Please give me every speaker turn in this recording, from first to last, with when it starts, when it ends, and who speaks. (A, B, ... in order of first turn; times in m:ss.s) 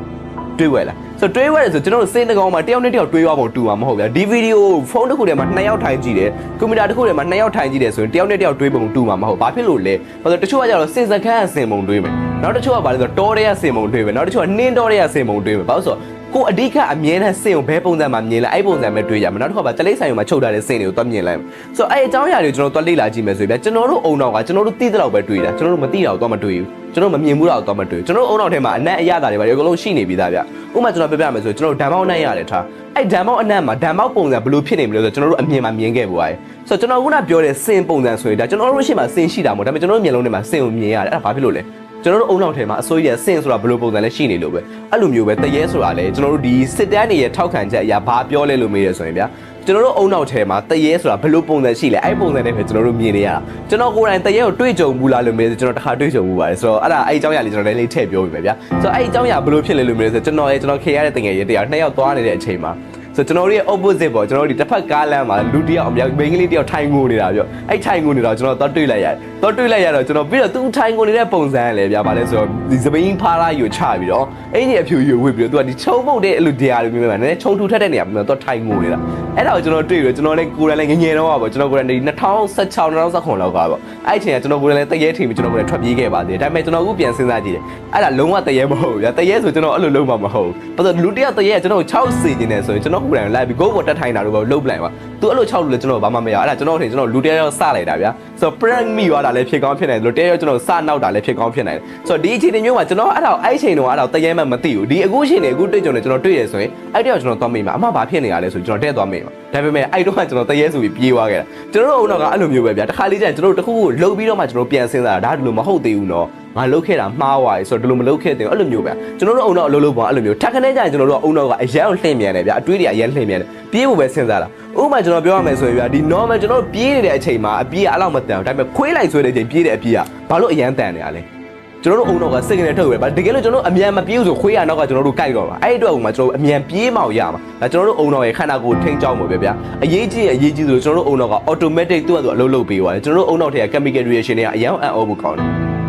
0:00.6-2:11.3 A
2:11.8-2:25.5 A